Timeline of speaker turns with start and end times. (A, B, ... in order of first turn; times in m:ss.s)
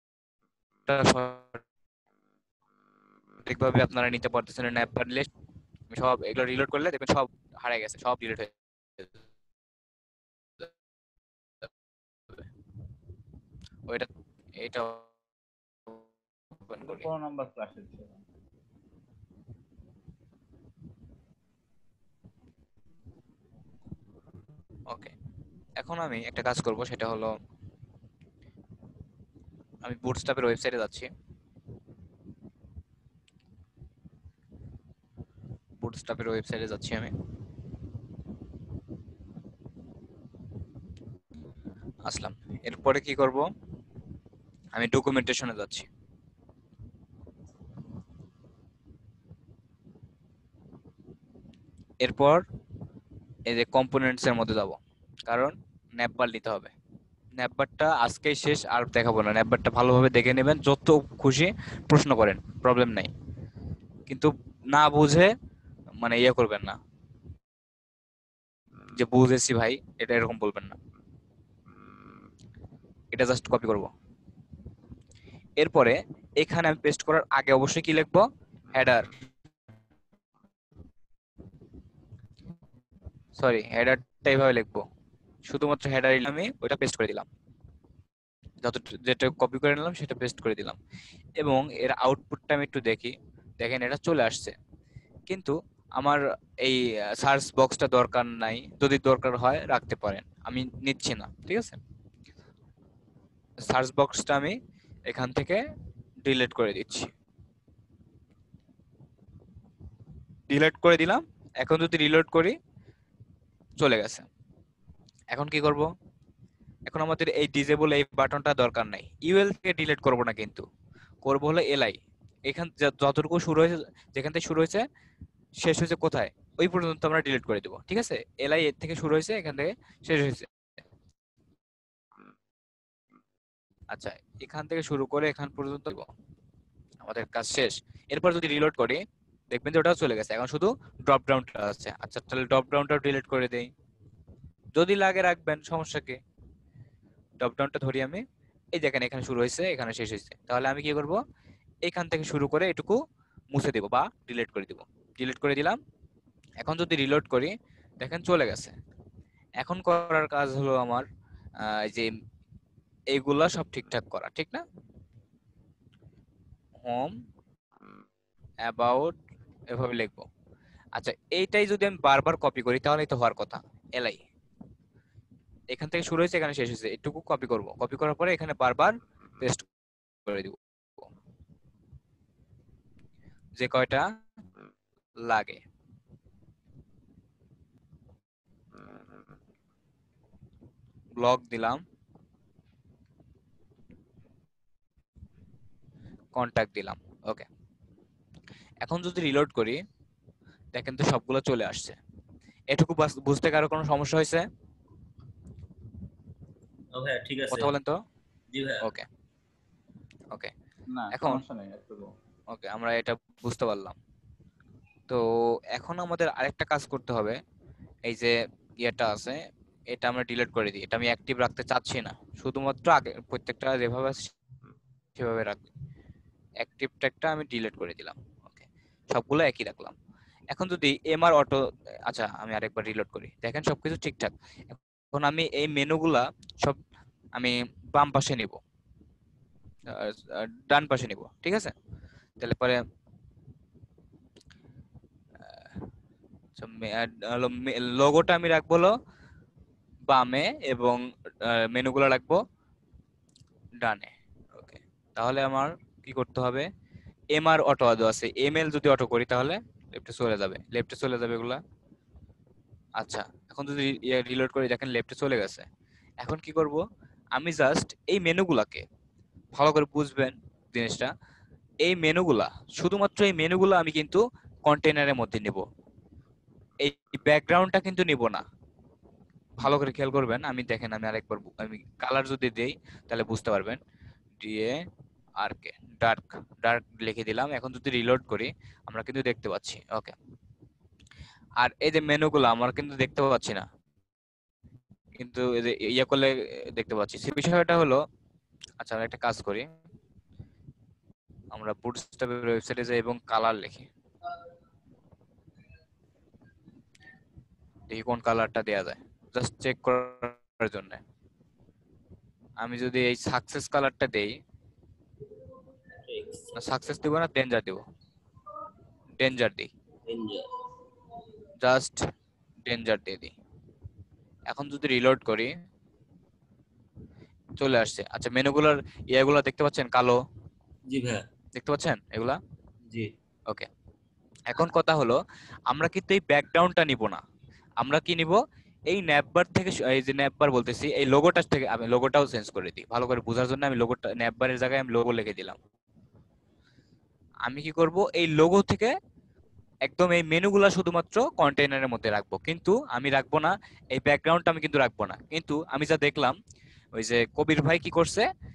0:00.9-0:01.6 A
0:03.4-0:05.3 A
0:05.9-0:09.1 A
0:13.9-0:15.1 A
0:16.7-0:17.1 A
0:16.8-0:18.2 B
0:25.8-0:27.3 A
0:29.8-0:31.1 A
0:35.8-0:37.1 A
0:42.0-0:43.5 A
0:44.7-0:45.9 A
0:52.0-0:52.4 A
0:53.5-0:56.7 A
0:57.4-1:03.1 A
1:04.1-1:05.3 A
1:06.0-1:06.8 A
1:08.9-1:10.8 A
1:13.1-1:13.9 A
1:15.6-1:19.1 A
1:23.4-1:24.8 A
1:25.5-1:27.3 A
1:28.6-1:30.8 A
1:31.4-1:34.5 A
1:35.3-1:41.8 A
1:43.6-1:44.6 A
1:45.1-1:45.6 A
1:46.2-1:47.1 A
1:50.5-1:52.6 A
1:53.8-1:54.3 A
1:55.3-1:55.9 A
1:56.9-2:00.6 A
2:01.2-2:04.8 A
2:05.6-2:10.5 A
2:13.9-2:16.1 A
2:17.0-2:23.7 A
2:24.8-2:26.2 A
2:27.4-2:28.2 A
2:28.7-2:31.2 A
2:31.8-2:33.0 A
2:33.5-2:35.8 A
2:36.6-2:38.7 A
2:39.6-2:41.0 A
2:41.6-2:42.1 A
2:43.1-2:44.6 A
2:46.8-2:47.1 A
2:48.7-2:49.2 A
2:49.7-2:50.3 A
2:50.9-2:54.2 A
2:55.7-2:59.6 A
3:00.2-3:01.1 A
3:03.6-3:04.0 A
3:05.2-3:05.6 A
3:11.2-3:11.8 A
3:16.4-3:17.5 A
3:18.8-3:19.8 A
3:20.7-3:22.0 A
3:22.7-3:24.4 A
3:26.9-3:27.7 C
3:27.5-3:28.0 A
3:28.5-3:28.8 C
3:28.8-3:29.1 A
3:30.9-3:32.1 B
3:31.1-3:31.4 A
3:32.5-3:34.0 A
3:35.1-3:37.4 A
3:38.1-3:44.3 A
3:45.2-3:45.7 A
3:46.6-3:49.9 A
3:50.5-3:56.8 A
3:57.4-3:58.6 A
3:59.9-4:01.7 A
4:02.4-4:02.8 A
4:06.6-4:08.9 A
4:10.1-4:12.4 A
4:13.8-4:16.7 A
4:17.3-4:21.6 A
4:23.0-4:25.6 A
4:26.2-4:26.8 A
4:27.3-4:28.8 A
4:29.6-4:31.1 A
4:31.8-4:35.6 A
4:36.8-4:38.4 A
4:39.6-4:43.8 A
4:44.4-4:44.8 A
4:45.4-4:50.1 A
4:51.6-4:53.6 A
4:55.2-4:58.0 A
4:58.8-4:59.6 A
5:01.5-5:03.9 A
5:07.9-5:11.0 A
5:12.6-5:14.3 A
5:16.1-5:16.5 C
5:16.6-5:17.8 A
5:19.2-5:19.7 A
5:20.1-5:20.5 C
5:21.6-5:22.0 A
5:22.6-5:23.3 A
5:24.5-5:25.5 A
5:27.6-5:30.2 A
5:30.9-5:31.2 C
5:31.6-5:32.4 A
5:34.5-5:37.2 A
5:37.8-5:45.6 A
5:47.4-5:48.9 A
5:49.9-5:56.4 A
5:57.0-5:58.3 A